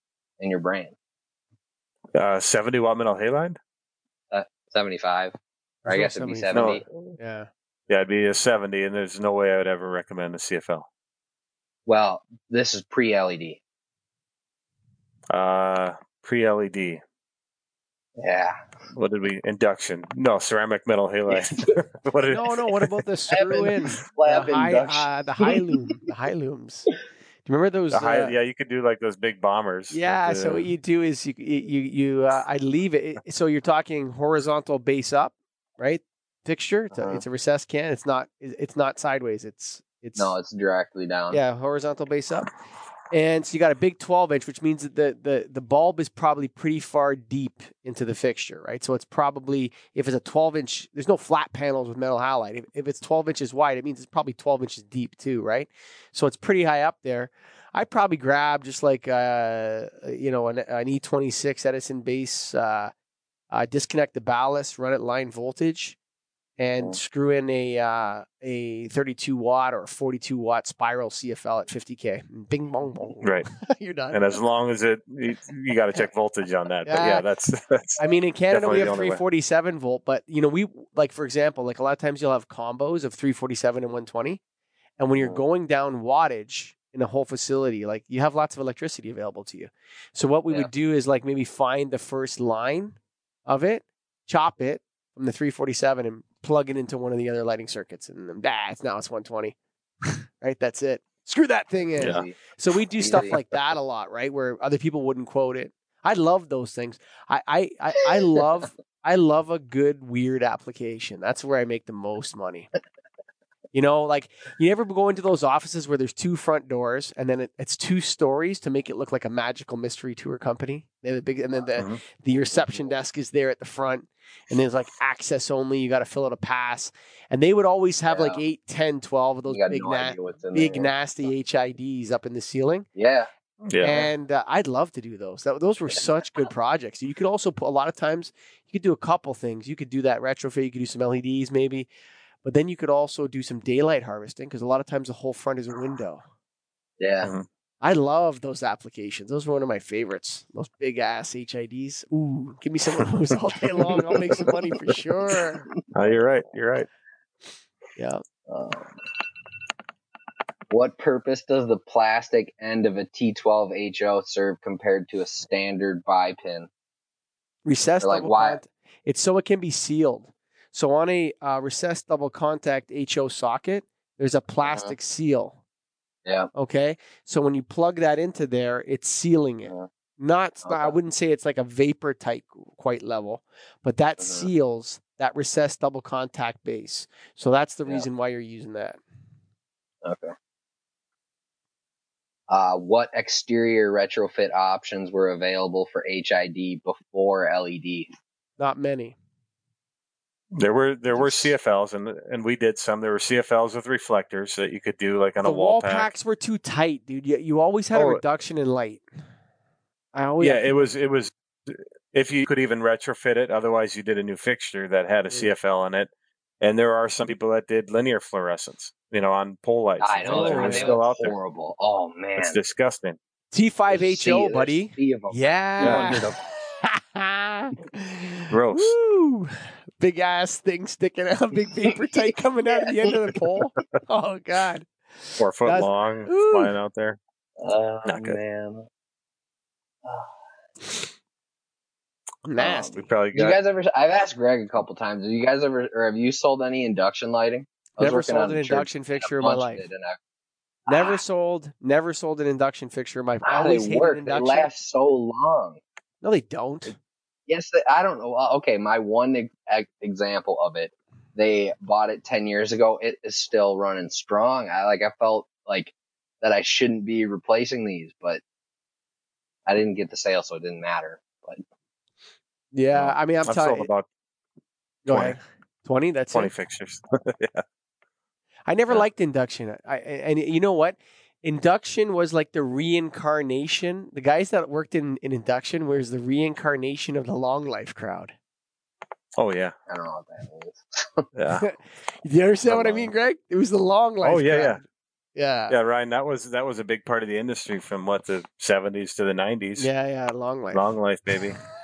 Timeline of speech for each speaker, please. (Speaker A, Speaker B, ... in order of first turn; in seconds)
Speaker A: 0.4-0.9, 4.3-5.3, 5.9-6.8, 11.9-13.6, 18.2-18.6, 21.3-21.8, 23.3-25.6, 36.9-37.2, 40.1-41.4, 102.0-102.3, 103.0-103.4, 128.1-128.4, 129.5-130.9, 132.9-133.3, 147.0-147.3, 158.5-159.0, 160.7-166.7, 168.0-168.6, 174.6-174.9, 180.6-180.9, 184.2-184.5, 190.0-190.3, 192.5-198.1, 220.0-222.6, 223.9-226.4, 231.9-233.1, 237.6-238.9, 240.0-240.3, 243.3-250.2, 250.9-251.2, 253.4-255.8, 257.5-268.4, 269.6-271.6, 289.9-291.3
Speaker B: 2.1-3.6, 6.5-6.8, 7.9-10.8, 15.3-17.0, 18.9-22.9, 27.9-30.7, 73.2-73.5, 74.1-79.2, 102.0-102.2, 133.6-134.1, 155.9-156.9, 200.5-206.1, 207.9-208.2, 210.4-216.1, 216.6-221.3, 222.4-223.2, 225.8-226.2, 228.5-228.9, 235.4-237.2, 238.0-238.4, 242.6-243.6, 272.9-274.1, 275.1-275.4, 276.3-277.6, 289.4-289.7, 291.3-291.6, 292.7-293.0, 294.2-294.8, 295.7-299.9, 300.7-301.6
Speaker C: 5.8-7.5, 22.3-26.9, 27.4-28.3, 29.9-40.3, 41.3-42.5, 43.1-62.9, 63.5-66.0, 66.6-74.2, 76.8-77.2, 78.0-84.4, 85.0-93.0, 93.5-112.7, 113.7-132.9, 133.8-141.9, 142.4-146.2, 147.8-155.7, 157.9-158.2, 167.6-175.6, 176.5-189.0, 198.6-199.1, 205.4-209.0, 210.1-210.8, 220.2-220.9, 223.5-226.3, 226.8-236.7, 242.4-243.0, 248.0-249.8, 250.9-254.7, 256.2-256.9, 272.7-273.9, 275.1-276.5, 278.7-288.3, 291.5-294.8, 295.4-295.7, 299.8-300.9